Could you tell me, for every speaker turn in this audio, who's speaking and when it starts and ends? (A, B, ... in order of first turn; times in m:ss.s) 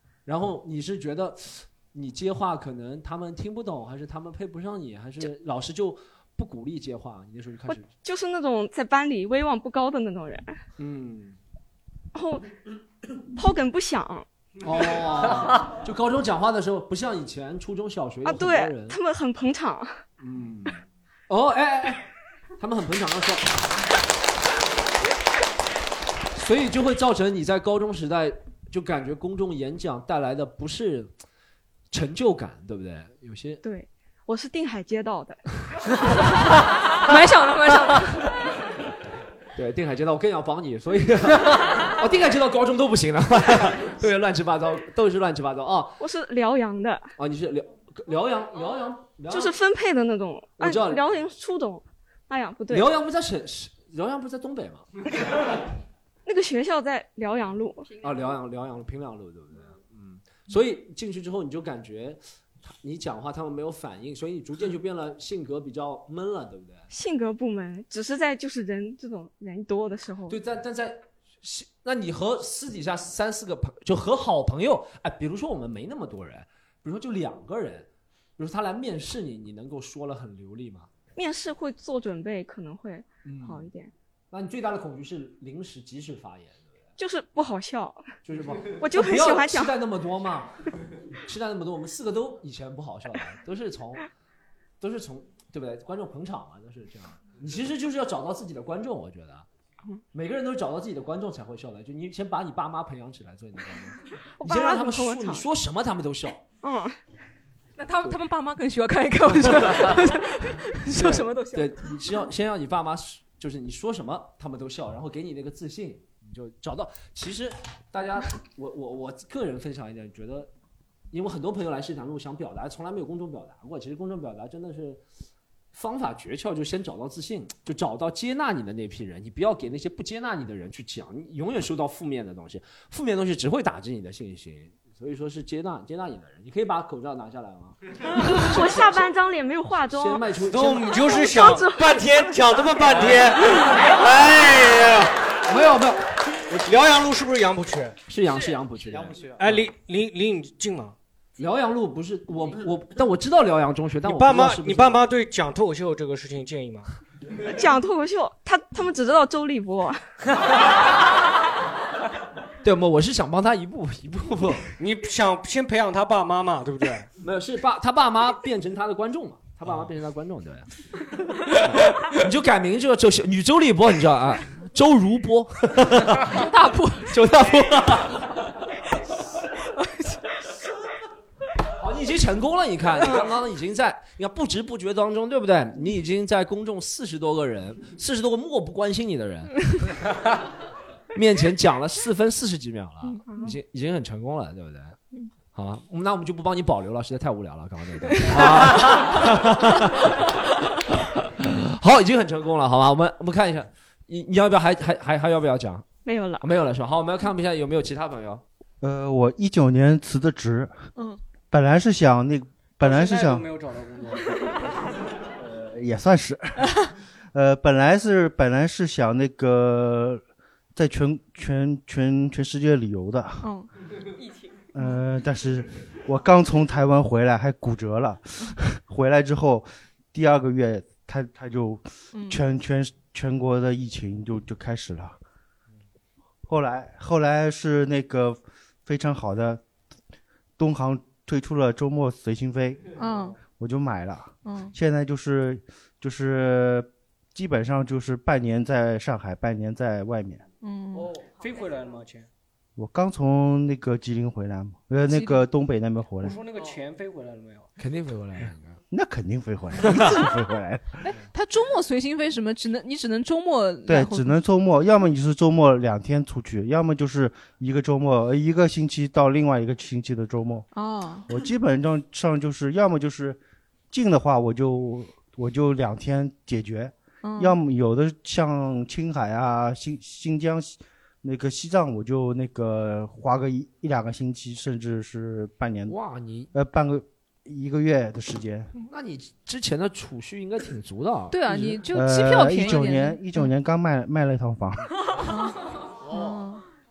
0:00.3-0:07.9 A
0:07.7-0:10.5 B
0:10.8-0:11.4 A
0:12.2-0:12.5 B
0:13.4-0:14.3 B
0:14.6-0:19.0 A
0:18.2-0:20.0 B
0:20.2-0:20.8 A
0:21.3-0:22.0 A
0:22.6-0:23.6 A
0:26.3-0:31.1 A
0:31.9-0:33.6 A
0:33.6-0:35.4 B
0:37.0-0:38.3 C
0:39.6-0:46.0 A
0:46.0-0:47.1 B
0:47.2-0:49.6 A
0:49.3-0:52.9 B
0:50.6-0:51.1 A
0:52.7-0:54.9 A
0:56.3-0:57.9 B
0:58.0-1:06.9 A
1:06.9-1:10.4 B
1:10.3-1:20.9 A
1:21.2-1:23.9 B
1:23.2-1:23.7 A
1:24.3-1:26.8 A
1:27.0-1:28.1 B
1:28.2-1:30.6 A
1:28.7-1:29.8 B
1:31.2-1:34.1 A
1:34.8-1:39.5 A
1:40.1-1:46.4 A
1:44.4-1:45.5 B
1:46.6-1:47.0 B
1:47.8-1:52.2 C
1:49.5-1:49.9 A
1:50.9-2:00.5 A
2:01.1-2:05.0 A
2:05.7-2:19.1 A
2:18.1-2:20.2 B
2:19.9-2:21.1 A
2:20.4-2:25.1 D
2:20.8-2:22.0 B
2:22.8-2:24.0 A
2:25.4-2:26.7 A
2:26.5-2:28.0 D
2:28.1-2:29.6 A
2:29.4-2:31.0 D
2:31.4-2:35.1 A
2:34.0-2:36.9 D
2:37.4-2:40.0 B
2:42.6-2:44.7 A
2:44.8-2:47.1 D
2:47.2-2:50.7 A
2:51.5-2:56.4 A
2:56.2-2:57.2 C
2:57.1-2:58.4 A
2:59.8-3:00.2 C
3:01.8-3:09.7 A
3:11.1-3:15.0 A
3:13.3-3:13.5 B
3:15.5-3:25.9 A
3:18.1-3:18.4 C
3:26.0-3:26.4 B
3:26.4-3:28.4 A
3:28.8-3:30.8 E
3:31.5-3:33.5 E
3:32.8-3:34.6 D
3:35.4-3:36.6 E
3:37.3-3:40.2 E
3:40.8-3:43.5 E
3:43.4-3:43.7 C
3:44.7-3:55.2 E
3:52.1-3:52.4 C
3:56.5-3:59.6 E
4:00.6-4:02.9 E
4:03.0-4:03.4 C
4:03.5-4:10.4 E
4:04.4-4:04.7 C
4:10.6-4:11.1 C
4:10.9-4:12.3 D
4:12.8-4:16.4 E
4:15.1-4:15.5 C
4:16.2-4:17.7 D
4:17.8-4:18.8 A
4:18.9-4:21.0 E
4:21.0-4:24.4 C
4:23.9-4:30.7 E
4:30.7-4:31.3 C
4:31.3-4:33.4 E
4:33.9-4:46.0 E
4:37.2-4:37.6 C
4:45.9-4:46.5 A
4:46.5-4:48.7 E
4:48.8-4:51.8 A
4:51.3-4:53.5 C
4:51.9-4:54.9 E
4:55.2-4:56.6 C